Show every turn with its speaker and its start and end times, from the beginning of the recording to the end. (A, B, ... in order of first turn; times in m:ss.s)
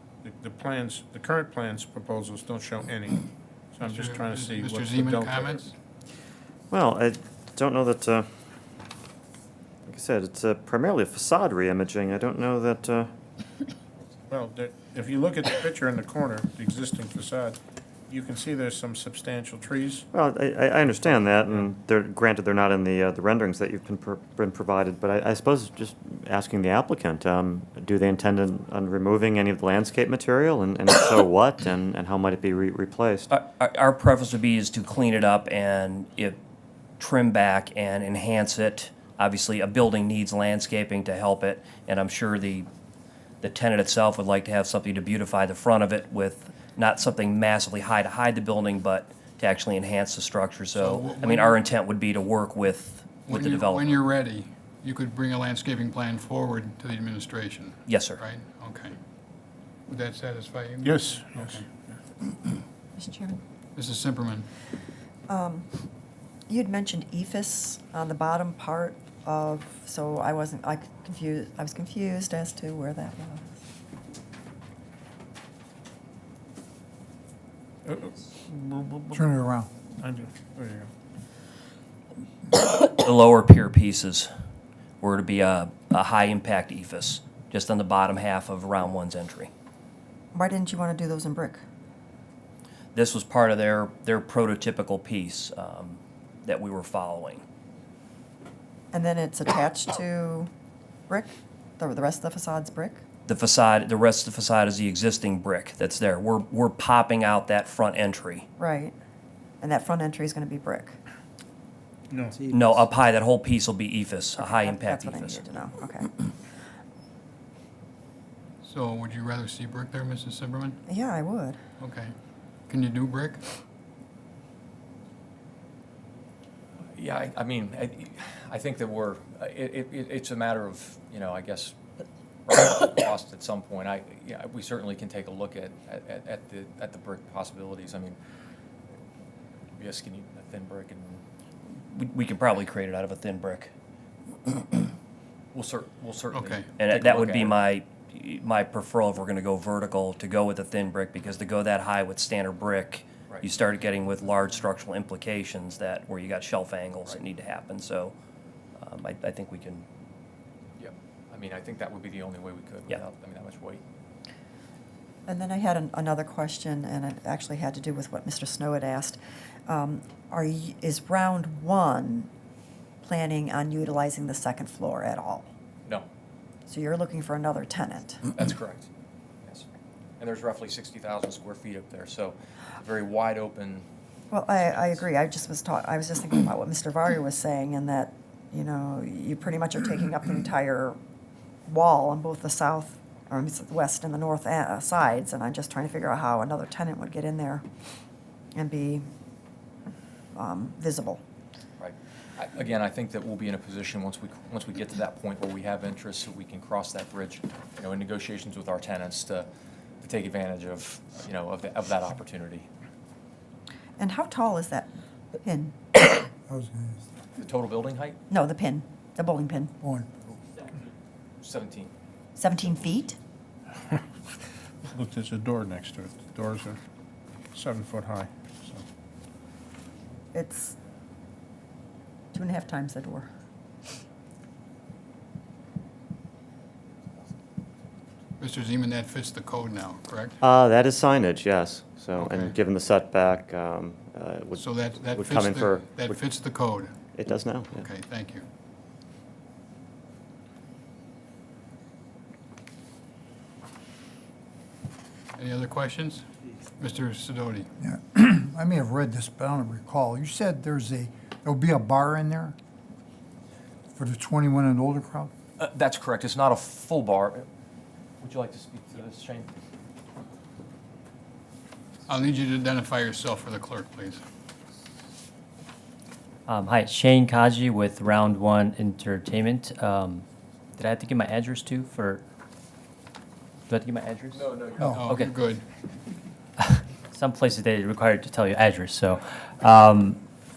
0:00.2-0:05.7 A
0:03.8-0:05.7 B
0:06.7-0:08.3 C
0:09.9-0:13.1 C
0:14.3-0:20.0 A
0:20.1-0:33.3 C
0:33.3-0:36.4 D
0:37.0-0:42.7 D
0:43.4-0:54.0 D
0:50.8-0:51.6 B
0:53.2-0:59.0 B
0:57.9-0:58.2 D
0:59.9-1:01.6 B
1:00.8-1:01.9 A
1:03.0-1:03.4 E
1:03.8-1:04.5 B
1:05.3-1:05.7 E
1:06.5-1:13.5 E
1:17.8-1:19.4 A
1:19.1-1:19.7 F
1:20.0-1:20.9 A
1:22.5-1:24.3 D
1:25.0-1:29.5 D
1:30.3-1:31.6 E
1:32.9-1:37.4 D
1:38.9-1:40.5 E
1:41.1-1:43.0 E
1:43.3-1:48.4 D
1:48.6-1:48.9 E
1:49.6-1:51.0 E
1:52.1-1:52.4 A
1:52.5-1:55.4 D
1:54.4-1:56.1 E
1:58.6-2:00.8 B
2:00.9-2:01.6 E
2:01.8-2:02.1 B
2:02.7-2:03.4 B
2:06.9-2:11.8 G
2:12.5-2:18.2 G
2:19.7-2:21.2 G
2:21.7-2:23.7 D
2:25.5-2:27.6 G
2:26.3-2:26.7 B
2:26.8-2:38.1 D
2:38.8-2:39.8 D
2:40.8-2:43.8 G
2:45.3-2:52.3 E
2:53.0-2:55.5 E
2:56.7-2:58.2 E
2:58.3-2:58.9 G
3:00.2-3:03.9 G
3:04.3-3:11.0 E
3:04.5-3:05.1 G
3:11.7-3:17.6 E
3:18.5-3:19.1 E
3:20.3-3:21.2 E
3:21.8-3:29.5 G
3:30.0-3:32.7 G
3:34.0-3:35.8 E
3:36.5-3:37.0 F
3:37.4-3:38.2 G
3:38.3-3:39.7 E
3:39.8-3:40.1 F
3:41.4-3:41.9 G
3:42.4-3:43.2 E
3:44.9-3:46.8 A
3:47.5-3:48.8 A
3:50.3-3:50.8 E
3:52.3-3:53.3 E
3:58.4-4:00.4 B
4:00.4-4:06.2 C
4:02.2-4:02.5 B
4:04.6-4:06.9 B
4:07.2-4:07.8 C
4:07.7-4:08.4 B
4:15.4-4:16.2 B
4:16.8-4:17.7 B
4:17.8-4:22.6 F
4:23.9-4:25.3 F
4:25.6-4:27.5 G
4:28.2-4:29.6 G
4:32.1-4:34.2 B
4:36.5-4:40.2 H
4:40.8-4:42.2 H
4:43.7-4:44.5 H
4:44.3-4:45.4 G
4:44.8-4:45.0 F
4:44.9-4:45.6 B
4:46.6-4:50.2 H